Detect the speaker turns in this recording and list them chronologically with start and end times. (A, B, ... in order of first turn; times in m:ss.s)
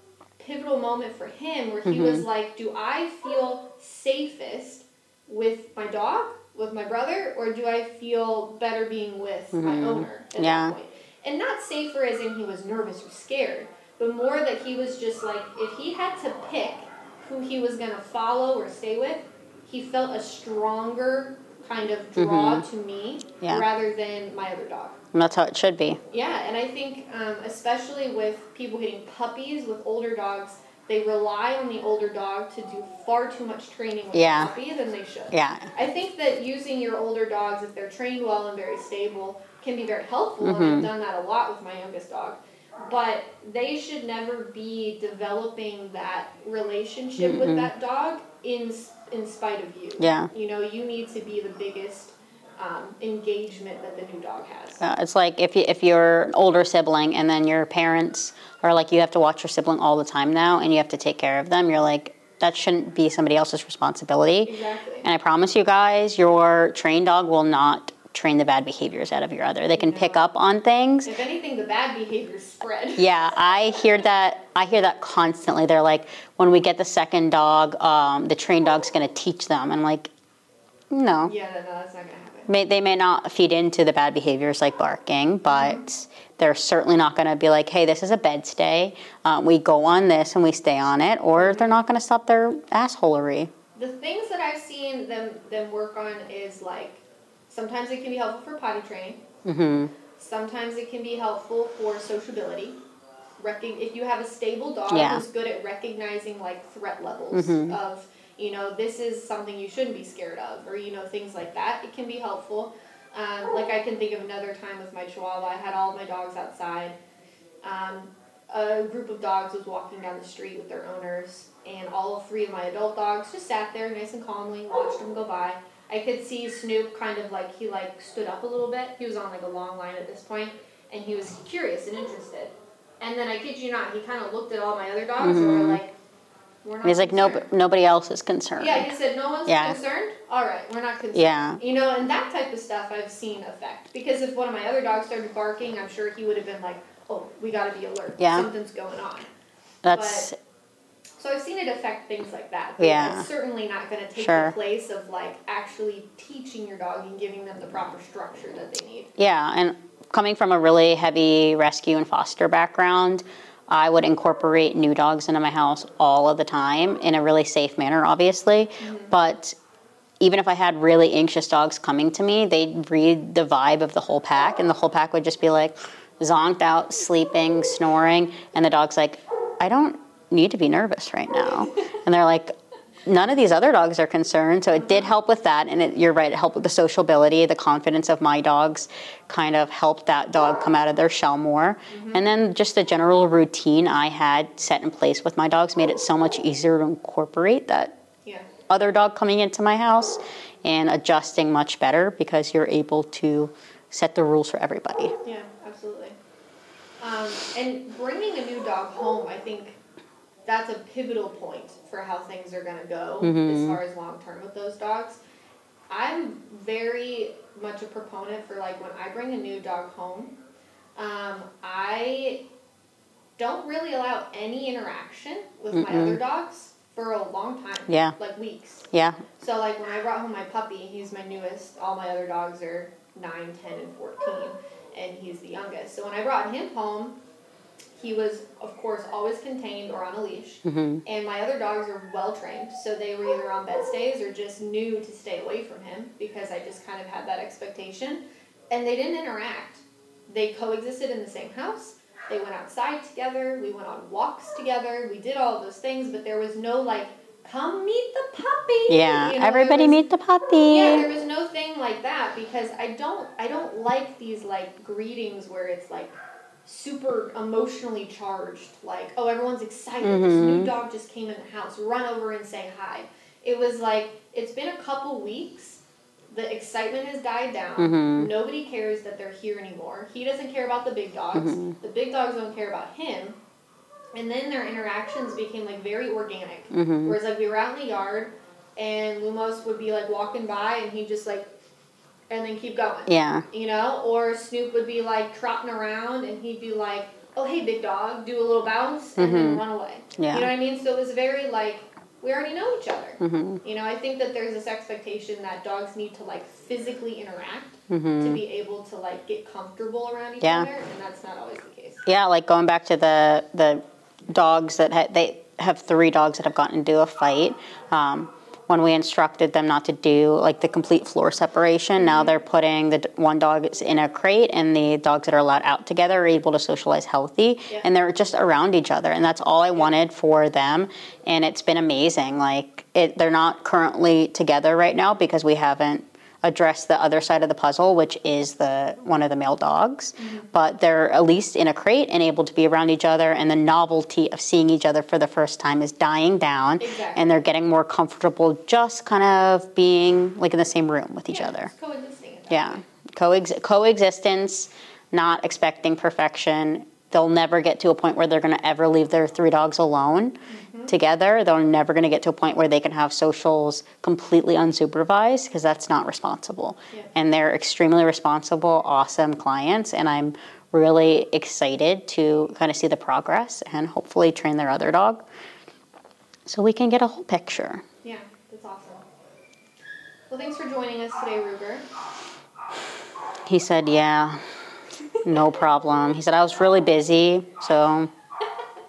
0:00.4-0:25.0 A
0:01.8-0:02.2 B
0:09.5-0:10.7 B
0:22.2-0:22.6 B
0:25.1-0:26.0 B
0:26.1-0:54.8 A
0:34.1-0:34.5 B
0:35.3-0:35.7 B
0:40.4-0:40.9 B
0:47.2-0:47.7 B
0:50.0-0:50.3 B
0:54.8-1:11.1 B
1:04.4-1:05.1 A
1:09.8-1:10.2 A
1:11.0-1:13.1 A
1:13.0-1:20.1 B
1:20.9-1:21.3 B
1:21.2-1:22.5 A
1:22.5-1:33.5 B
1:25.5-1:25.8 A
1:31.4-1:31.8 A
1:33.8-1:39.2 A
1:39.4-1:39.9 B
1:40.1-1:42.8 A
1:43.4-1:56.9 A
1:44.9-1:45.2 B
1:47.3-1:47.7 B
1:57.6-2:15.9 A
2:15.2-2:15.8 B
2:16.6-2:17.4 A
2:16.8-2:18.9 B
2:18.6-2:29.3 A
2:19.4-2:19.8 B
2:21.1-2:21.6 B
2:28.2-2:28.5 B
2:29.8-2:30.3 B
2:29.9-2:30.3 A
2:31.2-2:39.1 A
2:32.8-2:33.3 B
2:34.2-2:34.5 B
2:39.2-2:49.6 B
2:48.8-2:49.1 A
2:50.2-3:02.5 B
3:03.0-3:18.0 B
3:11.9-3:12.3 A
3:18.7-3:25.2 B
3:25.2-3:26.2 A
3:27.0-3:29.8 A
3:30.4-3:35.2 A
3:33.2-3:33.8 B
3:35.9-3:40.3 A
3:41.0-3:42.4 A
3:43.4-3:48.9 A
3:45.7-3:46.2 B
3:47.9-3:48.2 B
3:48.9-3:49.2 B
3:49.4-3:57.2 A
3:58.0-4:20.0 A
4:00.6-4:01.0 B
4:18.9-4:21.1 B
4:20.6-4:43.4 A
4:30.0-4:30.7 B
4:37.8-4:38.3 B
4:41.3-4:41.7 B
4:44.1-4:51.5 A
4:46.7-4:47.2 B
4:52.3-5:12.0 A
4:53.1-4:53.5 B
4:59.2-4:59.6 B
5:00.2-5:00.5 B
5:03.2-5:03.6 B
5:07.9-5:08.4 B
5:10.4-5:10.7 B
5:12.0-5:51.7 B
5:22.0-5:22.4 A
5:40.2-5:40.5 A
5:46.8-5:47.4 A
5:51.3-5:52.8 A
5:52.5-6:00.4 B
6:00.5-6:00.9 A
6:00.9-6:15.2 B
6:16.4-6:17.8 B
6:18.0-6:19.0 A
6:20.3-6:21.9 A
6:23.5-6:24.6 B
6:25.2-6:25.5 A
6:25.2-6:28.1 B